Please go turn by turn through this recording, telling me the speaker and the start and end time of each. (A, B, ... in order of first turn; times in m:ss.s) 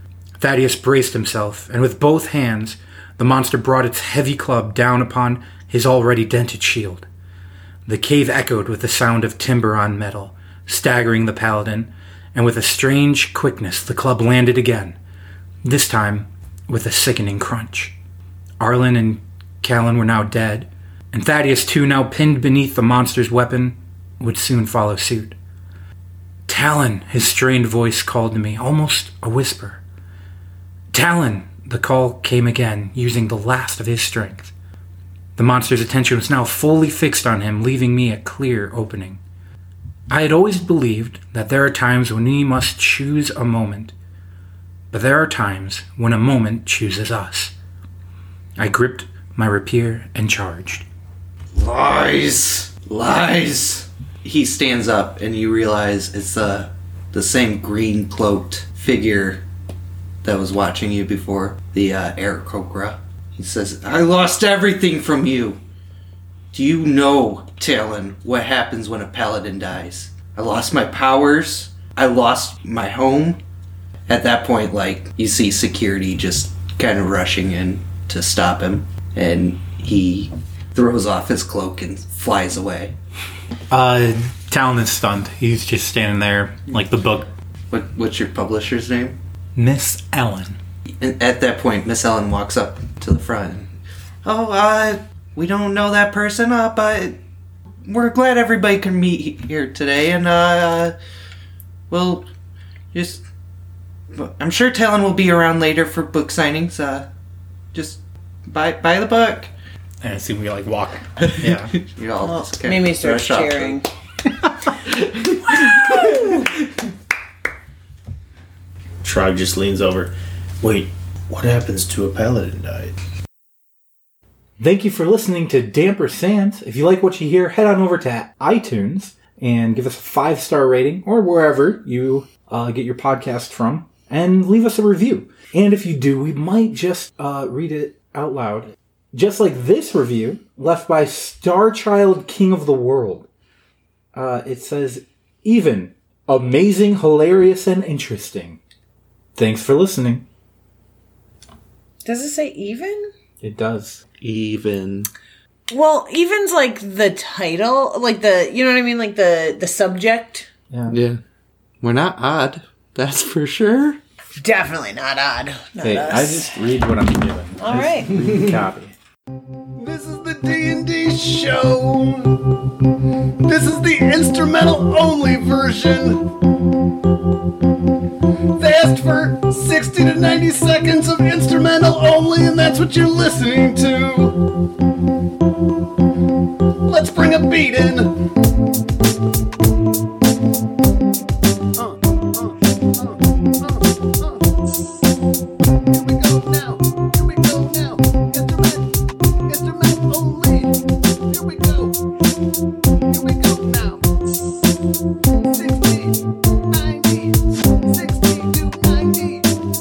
0:00.4-0:07.1 A
0:07.8-0:15.0 A
0:15.6-0:17.9 A
0:18.6-0:25.4 A
0:26.5-0:29.8 A
0:30.9-0:34.5 A
0:35.4-0:39.2 A
0:40.1-0:43.9 A
0:44.9-0:47.5 A
0:48.6-0:50.8 A
0:51.5-0:59.4 B
1:00.2-1:05.6 B
1:06.5-1:13.4 B
1:14.1-1:22.9 B
1:23.7-1:27.3 A
1:27.7-1:29.2 B
1:29.6-1:30.6 A
1:31.0-1:33.7 B
1:34.2-1:37.2 B
1:37.8-1:40.9 B
1:41.9-1:42.3 B
1:42.9-1:43.2 B
1:44.1-1:47.1 B
1:47.7-1:49.5 B
1:50.0-1:51.7 A
1:51.3-1:53.8 B
1:52.2-1:53.8 C
1:54.8-1:56.7 B
1:59.0-2:03.0 D
2:04.6-2:23.3 A
2:24.1-2:28.6 A
2:29.4-2:30.2 A
2:32.0-2:33.1 C
2:33.4-2:34.0 A
2:34.2-2:35.1 B
2:35.7-2:40.5 C
2:40.7-2:41.0 A
2:40.9-2:41.2 B
2:41.8-2:44.0 B
2:44.4-2:46.5 C
2:45.8-2:48.9 A
2:47.6-2:48.1 C
2:49.8-2:52.6 E
2:53.4-2:56.3 E
2:58.6-3:04.4 E
3:06.9-3:08.2 E
3:11.8-3:14.4 E
3:15.9-3:22.0 E
3:23.0-3:24.0 E
3:25.4-3:29.5 E